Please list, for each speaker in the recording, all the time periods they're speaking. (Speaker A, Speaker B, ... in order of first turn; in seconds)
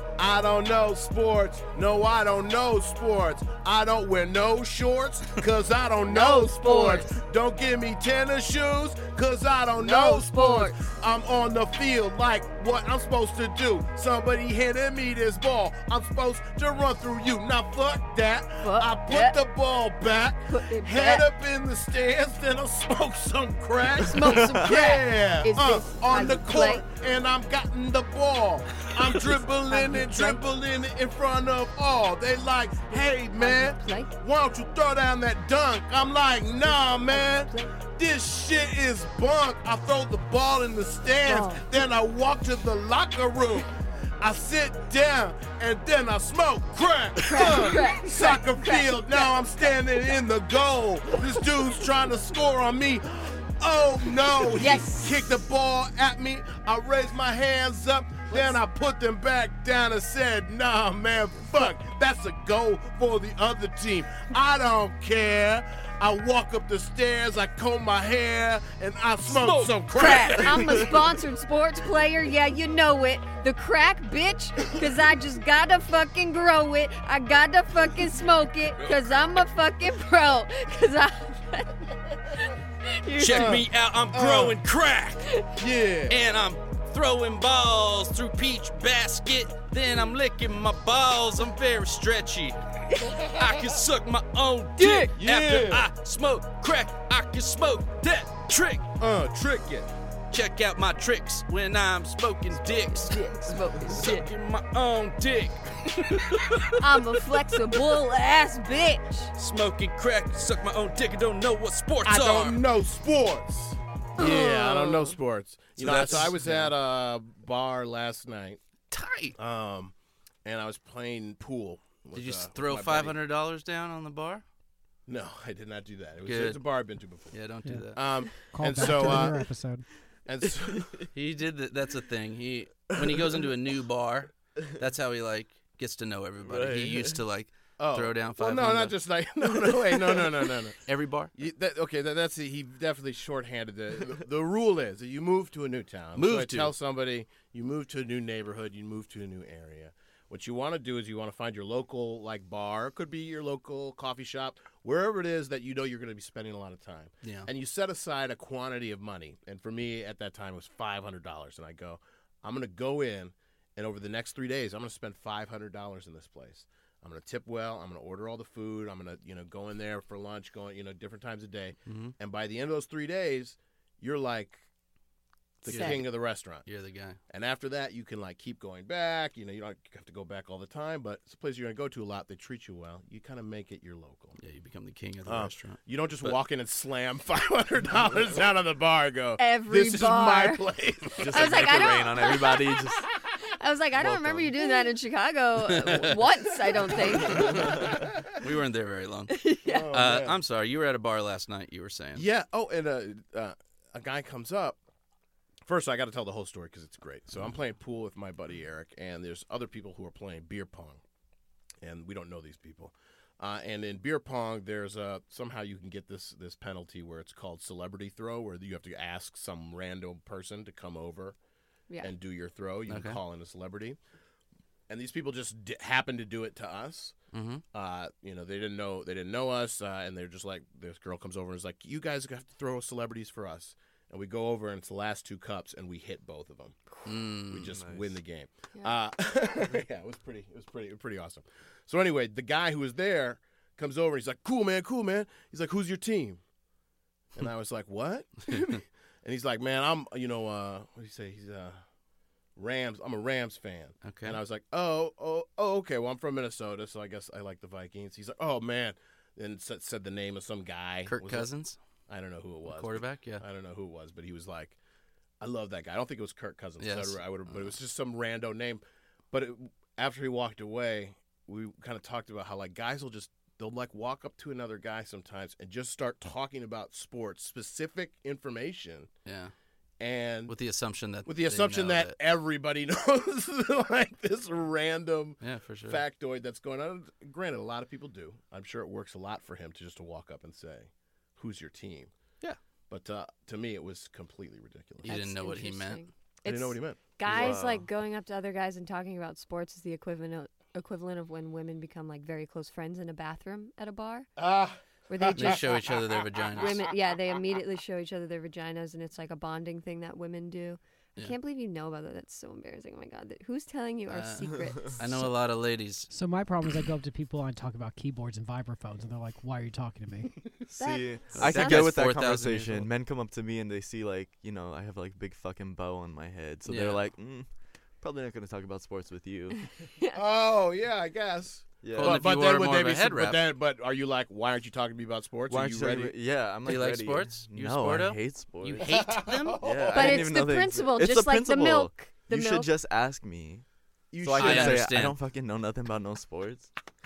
Speaker A: 0.2-71.0, 83.3-84.6, 85.6-86.2, 95.1-95.9, 99.0-99.9, 112.0-118.6, 119.4-123.1, 125.1-127.4, 127.9-129.5, 130.2-130.9, 137.8-140.8, 141.3-174.7, 175.6-176.7, 177.3-184.4, 185.2-192.0, 197.1-198.3, 199.6-200.4, 202.2-204.8, 205.7-211.0, 211.8-221.4, 222.0-224.0, 224.9-227.2, 227.7-236.9, 237.5-246.4, 247.4-251.8, 252.6-261.5, 262.1-264.8, 265.4-279.1, 280.0-280.5, 281.2-292.1, 292.9-295.1, 296.4-297.6, 304.4-306.8, 330.1-336.1, 338.8-340.2, 344.1-344.9
Speaker B: 6.1-7.2, 9.8-10.9, 18.6-19.4, 20.5-21.3, 24.0-26.8, 29.6-30.4, 33.4-34.1, 36.7-37.7, 41.2-41.6, 47.2-49.4, 54.5-55.4, 58.3-58.6, 69.9-83.6, 85.2-85.5, 94.8-95.1, 102.9-104.3, 106.8-109.3, 114.2-115.1, 175.7-176.0, 189.4-190.6, 191.3-192.9, 193.4-197.8, 199.3-199.9, 295.0-304.3, 305.1-306.0, 306.5-315.3, 320.8-321.9, 339.9-342.7
Speaker C: 24.3-24.7, 130.6-131.1, 132.9-133.4, 136.4-137.2, 191.2-193.1, 194.0-194.5, 237.7-238.2, 297.3-297.9, 314.5-314.8, 320.7-329.7, 331.8-332.2, 335.5-338.9, 339.6-343.6, 344.2-346.7
Speaker D: 69.2-70.8, 83.2-85.3, 86.1-98.9, 100.3-106.9, 107.6-108.0, 109.4-112.6, 115.8-116.8, 118.9-119.4, 122.1-124.4, 126.2-126.6, 127.3-128.4, 131.1-139.0, 140.9-141.3, 146.1-146.8, 157.2-157.5, 171.9-172.1, 175.7-177.2, 184.4-186.4, 195.7-196.2, 197.3-202.2, 222.9-223.2, 227.3-227.6, 237.0-237.8, 248.5-248.8, 254.0-254.4, 261.0-261.8, 262.7-263.4, 266.8-267.7, 279.2-279.5, 280.5-282.2, 285.4-286.0, 295.0-296.1, 305.4-306.8, 314.1-316.1, 321.3-322.9, 326.6-327.0, 331.9-333.4, 336.6-339.6, 344.3-345.2
Speaker E: 127.7-129.9, 316.1-320.4